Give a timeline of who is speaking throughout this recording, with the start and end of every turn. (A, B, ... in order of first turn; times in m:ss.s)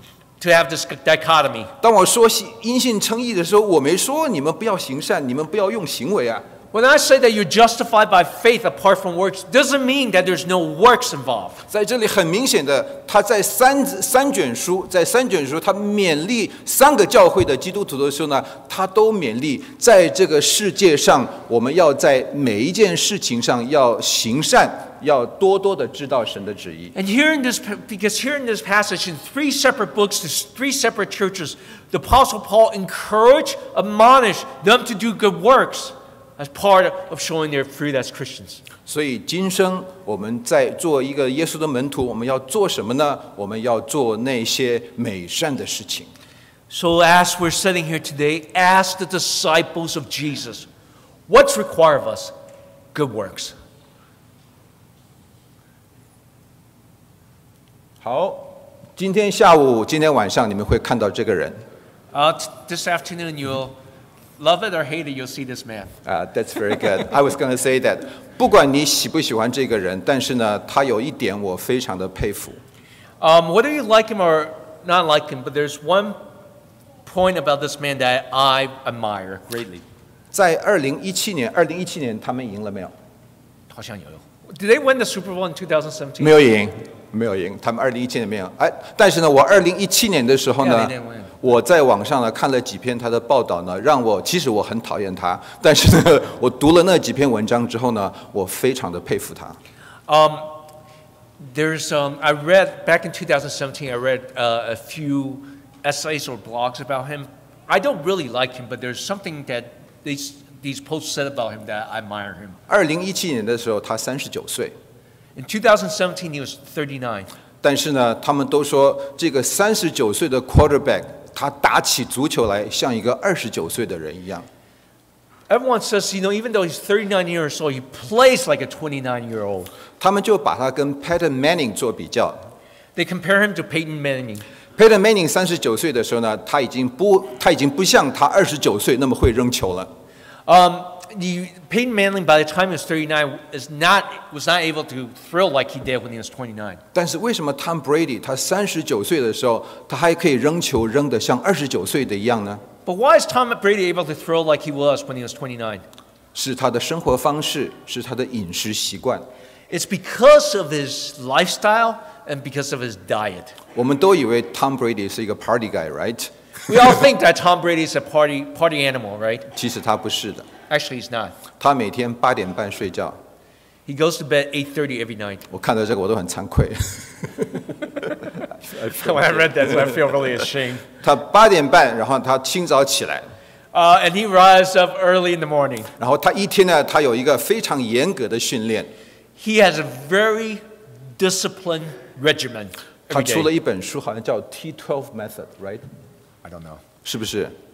0:00.4-0:01.7 A
0:01.8-0:06.4 B
0:06.7-0:11.6 A
0:11.7-0:26.9 B
0:26.9-0:38.6 A
0:38.9-0:46.1 B
0:46.7-0:50.7 A
0:51.3-0:52.3 A
0:52.9-0:53.6 A
0:58.0-1:01.6 B
1:02.1-1:03.7 A
1:04.4-1:05.9 A
1:06.0-1:12.6 B
1:13.2-1:16.2 A
1:17.0-1:19.8 A
1:20.3-1:22.9 B
1:23.7-1:26.4 A
1:26.2-1:39.6 B
1:30.6-1:31.4 A
1:40.1-1:40.6 A
1:41.4-1:52.6 A
1:52.7-1:54.8 B
1:55.4-1:57.3 A
1:57.6-2:04.5 B
2:05.5-2:09.7 A
2:10.0-2:12.5 B
2:13.0-2:14.4 A
2:14.8-2:19.9 B
2:20.4-2:26.8 A
2:26.9-2:32.6 B
2:32.8-2:35.8 A
2:36.3-2:39.2 B
2:39.7-2:43.6 A
2:43.7-2:46.3 B
2:46.7-2:49.5 A
2:49.5-2:50.5 B
2:50.7-2:51.4 A
2:51.6-2:53.2 B
2:53.8-2:55.5 A
2:55.5-2:57.8 B
2:58.6-3:00.1 B
2:58.7-3:00.9 A
3:01.0-3:03.3 B
3:03.7-3:05.9 A
3:06.0-3:08.9 B
3:09.4-3:10.6 A
3:11.2-3:13.5 A
3:13.1-3:15.8 B
3:16.4-3:16.8 A
3:17.0-3:17.5 B